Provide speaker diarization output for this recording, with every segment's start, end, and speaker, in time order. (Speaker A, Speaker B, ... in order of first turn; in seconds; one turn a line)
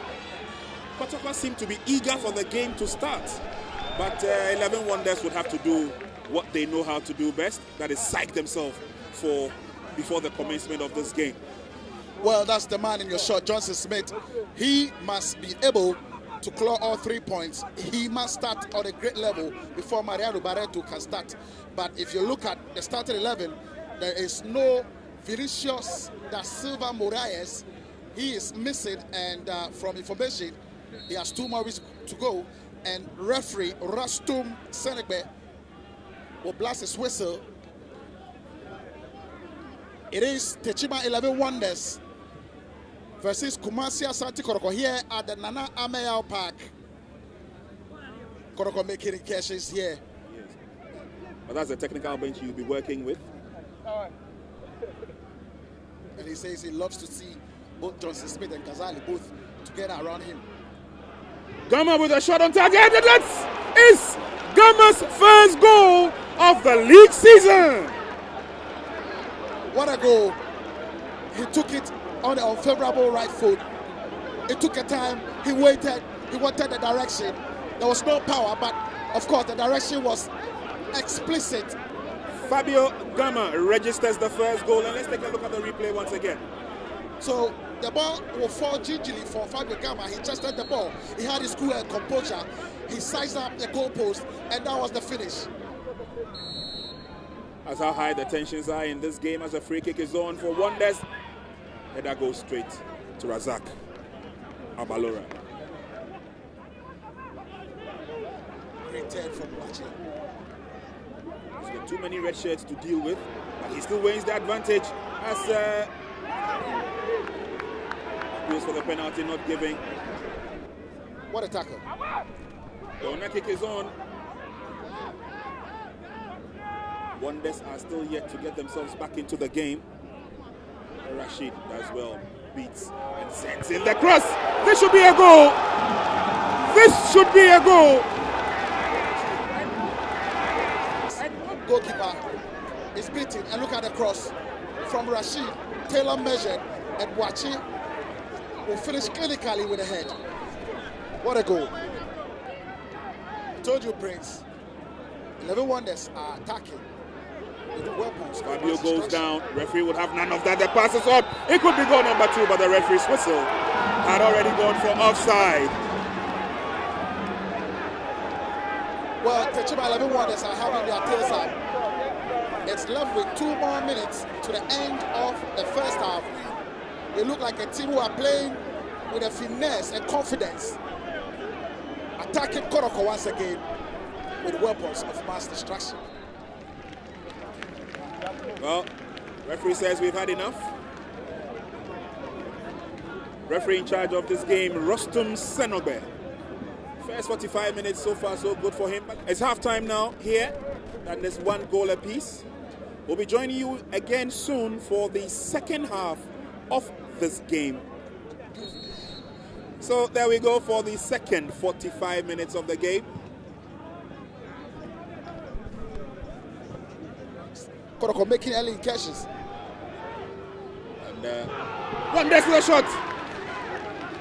Speaker A: 1.0-3.4
Speaker A: 4.0-11.4
Speaker B: 12.2-30.6
Speaker B: 31.1-35.3
Speaker B: 36.4-37.4
Speaker B: 40.1-42.0
Speaker B: 43.2-46.7
Speaker B: 48.5-50.0
Speaker A: 50.2-50.5
Speaker A: 51.5-53.2
Speaker B: 56.1-60.4
Speaker A: 61.7-68.0
Speaker B: 69.7-70.4
Speaker B: 71.3-73.6
Speaker B: 74.5-80.3
Speaker B: 80.9-81.8
Speaker A: 82.4-86.4
Speaker B: 87.2-95.5
Speaker A: 97.6-101.0
Speaker A: 101.9-103.7
Speaker A: 104.8-105.3
Speaker B: 108.8-109.9
Speaker A: 111.6-115.9
Speaker A: 118.3-119.8
Speaker B: 121.3-121.8
Speaker A: 123.0-123.9
Speaker A: 127.2-129.8
Speaker A: 131.0-135.6
Speaker A: 136.7-138.1
Speaker B: 141.1-142.2
Speaker B: 142.9-144.3
Speaker B: 144.8-147.6
Speaker B: 148.7-150.2
Speaker B: 151.2-151.7
Speaker B: 153.6-154.4
Speaker B: 155.4-156.8
Speaker B: 157.7-159.3
Speaker A: 158.4-165.8
Speaker B: 169.2-171.6
Speaker B: 172.7-176.6
Speaker B: 177.1-180.8
Speaker B: 182.2-183.6
Speaker B: 184.4-186.0
Speaker A: 188.6-188.9
Speaker A: 189.4-190.7
Speaker A: 193.5-196.1
Speaker A: 197.0-202.4
Speaker A: 203.1-207.8
Speaker A: 209.8-213.1
Speaker B: 218.0-219.3
Speaker A: 221.0-221.5
Speaker A: 222.1-223.0